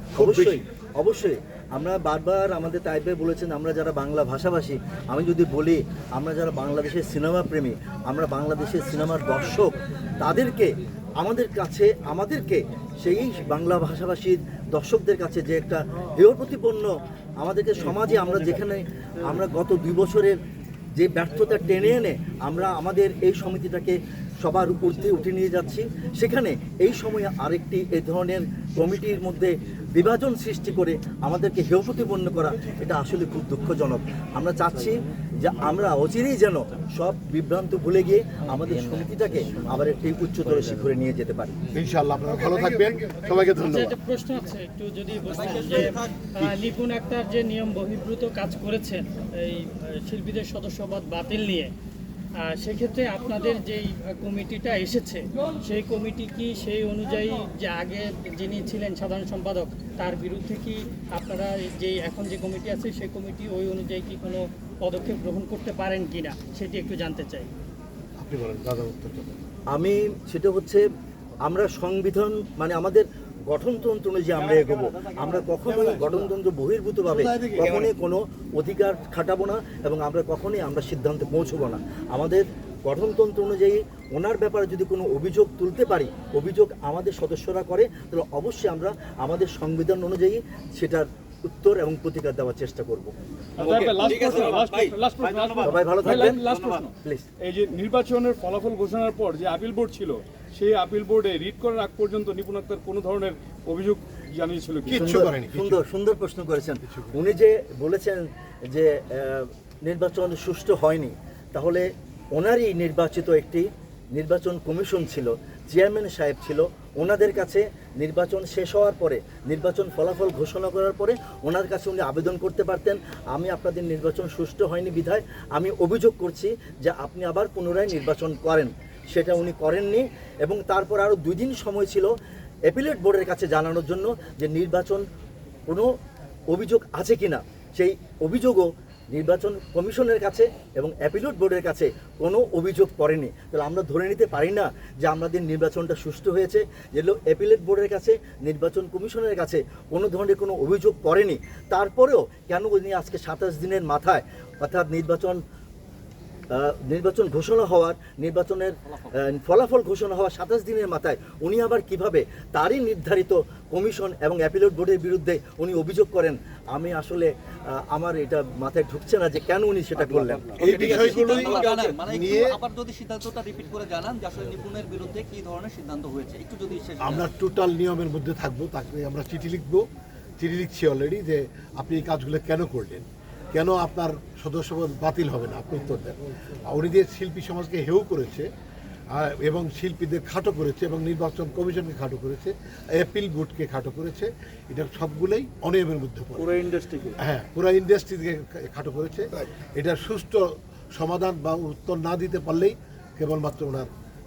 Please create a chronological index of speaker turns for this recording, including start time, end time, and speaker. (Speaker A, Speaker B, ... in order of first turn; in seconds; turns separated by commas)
Speaker A: 0.1-0.6, Speaker B: 0.2-20.4, Speaker B: 20.9-41.6, Speaker A: 41.7-44.0, Speaker C: 43.6-51.7, Speaker D: 45.2-46.2, Speaker A: 46.4-46.7, Speaker C: 52.4-67.5, Speaker A: 68.2-69.4, Speaker B: 69.7-70.8, Speaker B: 71.4-93.1, Speaker E: 74.4-76.2, Speaker E: 77.2-77.6, Speaker E: 93.6-96.9, Speaker D: 93.6-96.9, Speaker B: 95.6-96.4, Speaker B: 97.0-97.2, Speaker E: 97.4-105.0, Speaker A: 104.9-105.9, Speaker B: 104.9-132.1, Speaker A: 106.9-107.2, Speaker B: 132.7-135.0, Speaker B: 136.5-155.4, Speaker B: 156.5-171.1, Speaker A: 170.5-172.6, Speaker D: 170.6-177.2, Speaker E: 170.6-171.9, Speaker A: 177.0-179.9, Speaker A: 180.4-188.5, Speaker A: 189.1-203.9, Speaker E: 196.6-197.0